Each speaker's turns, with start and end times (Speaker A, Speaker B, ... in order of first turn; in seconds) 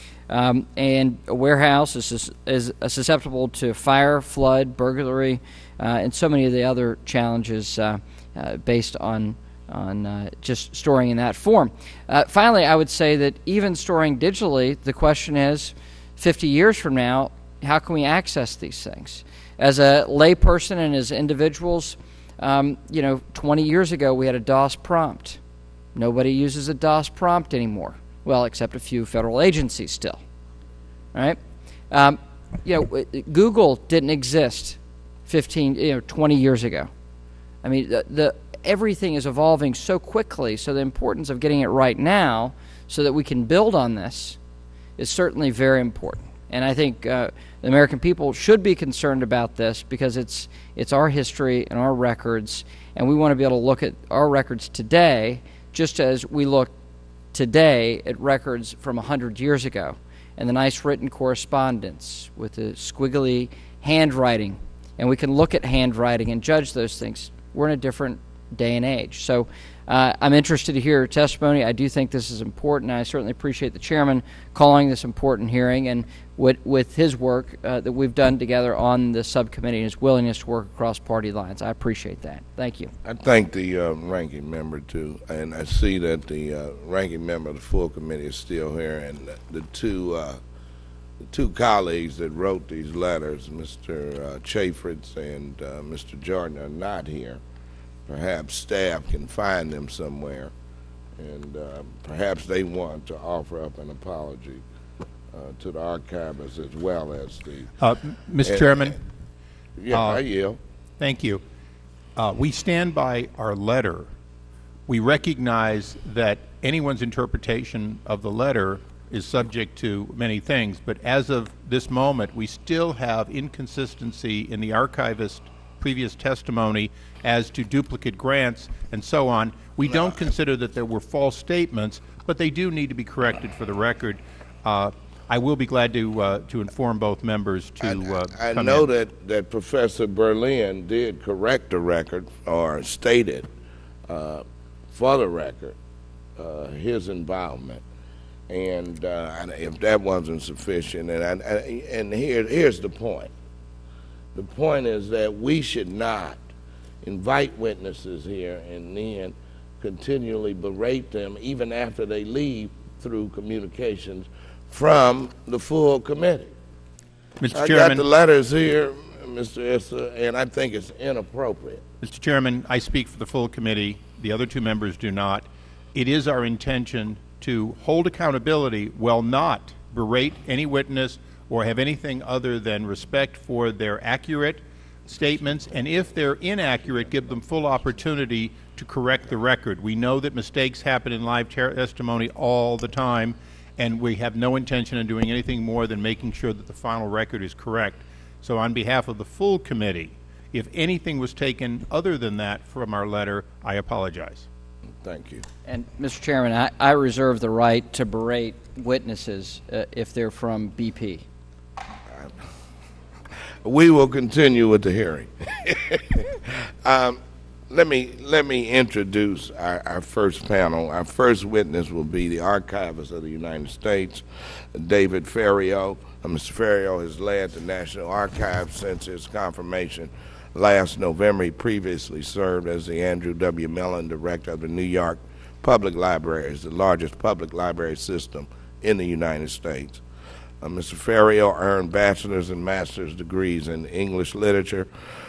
Speaker A: 0.3-25.4, 25.9-30.2, 31.1-31.4, 31.9-36.9, 37.6-44.4, 45.0-56.7, 57.3-82.9, 205.7-211.2
Speaker B: 83.0-90.4, 91.3-97.4, 98.1-100.5, 101.2-104.6, 105.3-107.7, 108.4-108.9, 109.8-110.6, 137.8-143.5, 144.1-145.8, 146.4-147.8, 148.5-153.3, 154.3-156.4, 157.0-166.5, 167.5-171.8, 205.0-205.4, 213.6-217.2, 217.7-240.0, 240.6-244.9
Speaker C: 107.8-109.0, 109.9-110.2, 111.0-111.4, 112.2-114.1, 114.9-138.9, 167.4-168.0, 172.0-204.5